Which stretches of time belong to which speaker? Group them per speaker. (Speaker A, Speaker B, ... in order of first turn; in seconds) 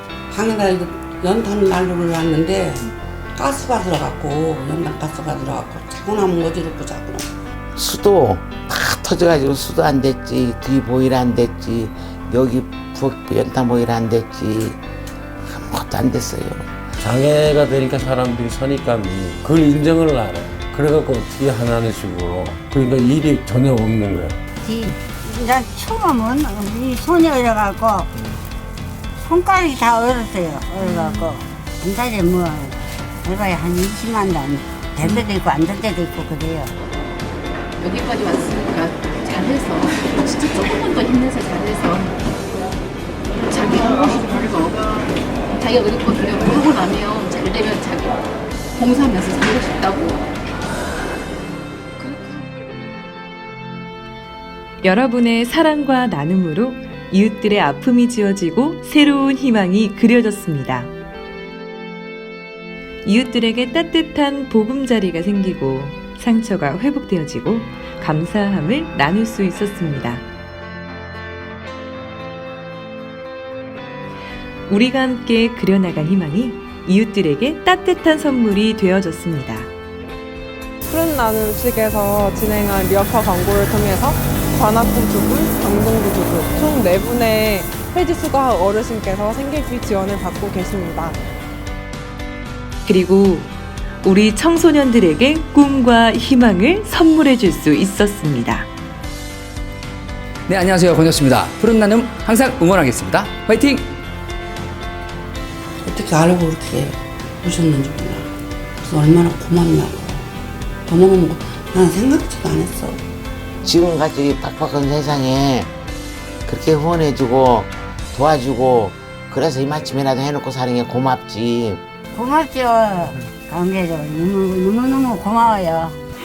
Speaker A: 0.3-7.3, 105.8-108.3, 108.8-110.2, 110.9-113.0
Speaker B: 7.8-14.8, 15.4-16.6, 113.6-115.7, 116.5-121.8
Speaker C: 17.0-24.4
Speaker D: 24.6-28.1, 29.2-36.7, 122.1-126.0
Speaker E: 37.8-42.1, 43.4-48.2, 48.8-50.2
Speaker F: 54.8-60.9, 63.0-70.2, 74.7-79.7, 92.8-98.7
Speaker G: 80.9-91.2
Speaker H: 100.5-103.9